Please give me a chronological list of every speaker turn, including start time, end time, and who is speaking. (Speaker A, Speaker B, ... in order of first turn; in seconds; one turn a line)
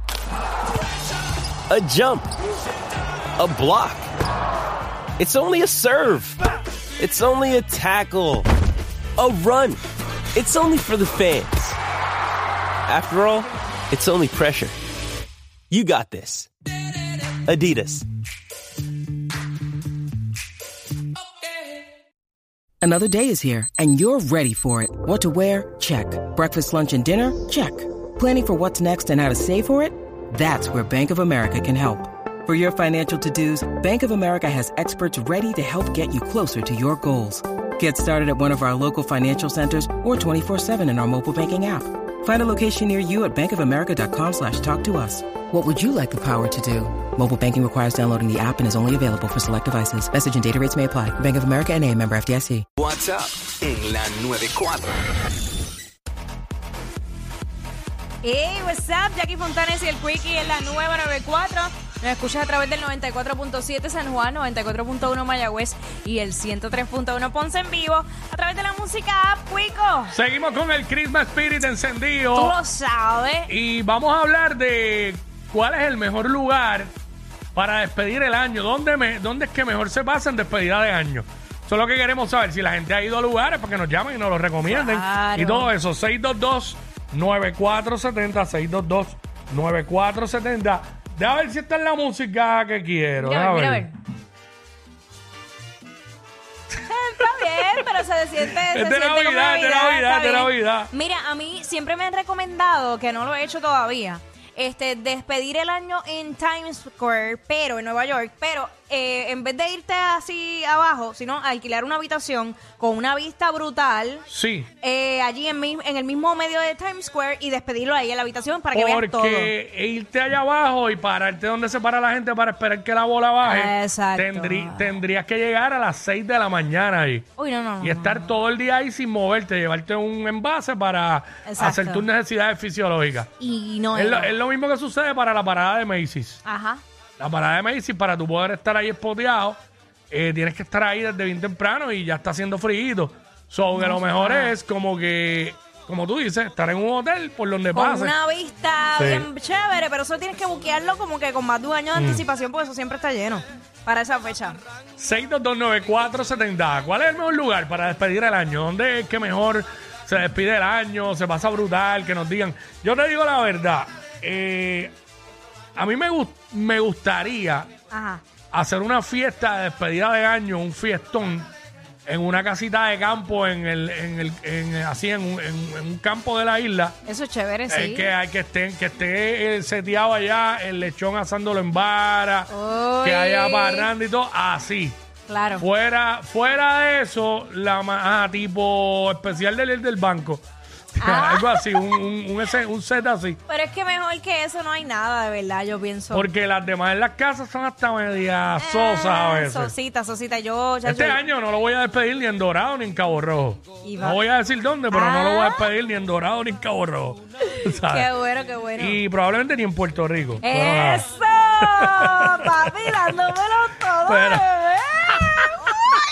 Speaker A: 1.7-2.3
Speaker A: 3.4-4.1
Speaker A: 5.2-6.4
Speaker A: 7.0-8.5
Speaker A: 9.2-9.8
Speaker A: 10.3-11.8
Speaker A: 12.9-14.8
Speaker A: 15.7-16.5
Speaker A: 17.3-18.1
Speaker B: 22.8-52.7
Speaker C: 52.8-54.9
Speaker D: 58.2-70.1
Speaker E: 70.1-72.6
Speaker D: 72.3-73.5
Speaker E: 73.5-76.9
Speaker E: 77.5-93.9
Speaker D: 84.6-85.7
Speaker D: 93.2-93.9
Speaker D: 96.8-114.3
Speaker E: 98.7-100.9
Speaker E: 114.3-114.7
Speaker D: 114.8-119.5
Speaker E: 118.7-127.3
Speaker D: 123.4-125.0
Speaker D: 127.4-128.3
Speaker E: 127.8-133.3
Speaker D: 131.4-132.1
Speaker D: 133.4-134.3
Speaker E: 133.9-136.4
Speaker D: 136.4-136.8
Speaker E: 137.2-139.6
Speaker E: 140.1-148.1
Speaker D: 143.8-144.6
Speaker D: 147.7-154.6
Speaker E: 149.0-149.3
Speaker E: 151.9-152.2
Speaker E: 155.0-164.9
Speaker E: 165.8-167.7
Speaker D: 167.9-168.2
Speaker E: 168.5-171.5
Speaker E: 172.1-177.0
Speaker D: 177.1-178.1
Speaker E: 177.7-182.5
Speaker D: 182.5-183.9
Speaker E: 183.0-185.0
Speaker D: 185.3-185.7
Speaker E: 185.6-190.4
Speaker E: 190.9-193.4
Speaker D: 191.0-191.8
Speaker D: 193.5-196.3
Speaker E: 196.1-199.7
Speaker D: 198.6-201.2
Speaker E: 200.8-208.1
Speaker D: 203.8-204.2
Speaker D: 204.9-205.7
Speaker D: 207.9-209.0
Speaker E: 208.8-211.1
Speaker D: 210.4-216.0
Speaker E: 211.7-212.7
Speaker E: 214.1-214.5
Speaker E: 215.1-215.4